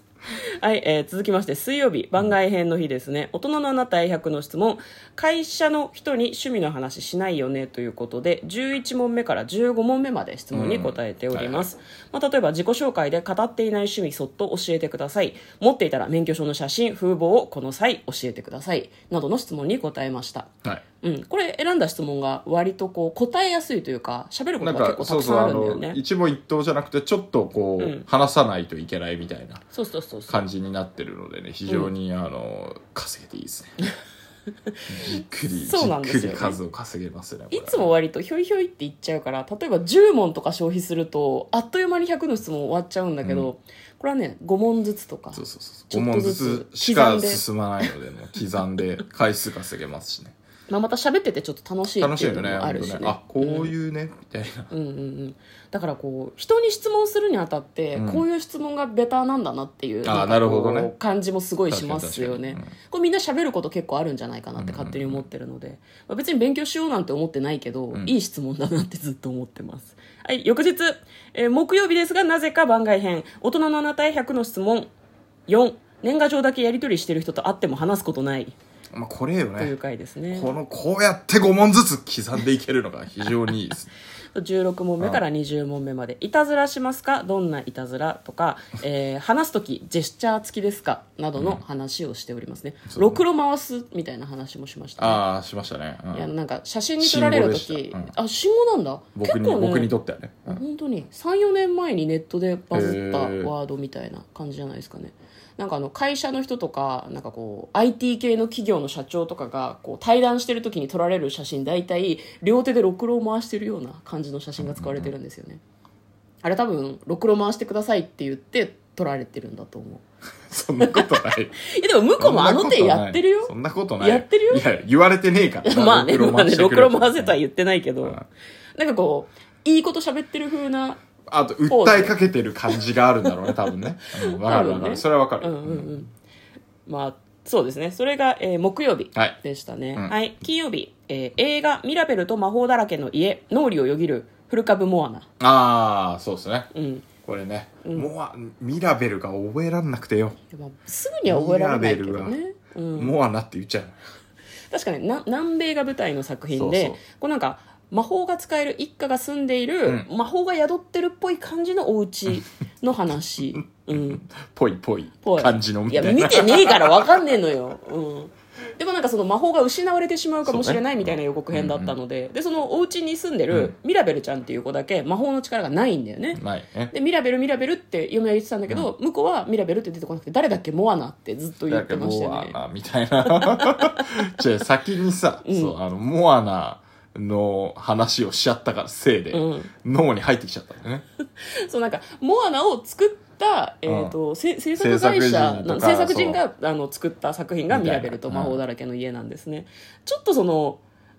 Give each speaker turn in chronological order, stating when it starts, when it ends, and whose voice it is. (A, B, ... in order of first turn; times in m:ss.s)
0:00.6-0:20.5 A
0:10.5-0:11.7 B
0:21.0-0:26.0 A
0:24.6-0:29.6 B
0:27.8-0:28.0 A
0:29.7-0:30.4 A
0:30.3-0:33.7 B
0:34.9-0:37.9 B
0:35.6-0:36.6 A
0:37.5-0:47.4 A
0:43.2-0:43.5 B
0:45.3-0:50.3 B
0:50.7-0:53.7 A
0:52.0-0:54.7 B
0:54.7-1:14.9 A
0:57.9-0:58.2 B
1:00.0-1:00.9 B
1:01.7-1:02.7 B
1:04.6-1:05.2 B
1:15.5-1:18.5 A
1:18.9-1:19.7 B
1:19.6-1:20.5 A
1:20.3-1:23.9 B
1:24.3-1:35.2 A
1:31.4-1:31.6 B
1:32.9-1:33.2 B
1:35.0-1:36.3 B
1:36.1-1:39.9 A
1:37.0-1:38.1 B
1:39.2-1:40.6 B
1:40.5-1:55.6 A
1:42.7-1:43.5 B
1:54.6-1:55.1 B
1:56.4-2:00.0 A
2:00.5-2:01.6 B
2:00.8-2:04.6 A
2:02.2-2:07.4 B
2:05.6-2:08.2 A
2:08.0-2:08.3 B
2:08.8-2:11.0 A
2:11.3-2:16.0 B
2:11.7-2:12.2 A
2:14.0-2:16.1 A
2:16.8-2:25.3 A
2:25.4-2:26.7 B
2:26.7-2:27.1 A
2:27.2-2:30.4 B
2:30.5-2:33.1 A
2:31.2-2:32.3 B
2:32.9-2:34.0 B
2:34.7-2:44.2 A
2:36.5-2:37.0 B
2:43.8-2:47.0 B
2:45.2-3:02.6 A
2:50.4-2:52.0 B
2:56.3-2:56.9 B
3:01.7-3:11.0 B
3:03.3-3:04.3 A
3:05.4-3:05.7 A
3:09.3-3:09.7 A
3:11.4-3:20.8 A
3:13.8-3:14.2 B
3:14.8-3:16.4 B
3:17.7-3:18.6 B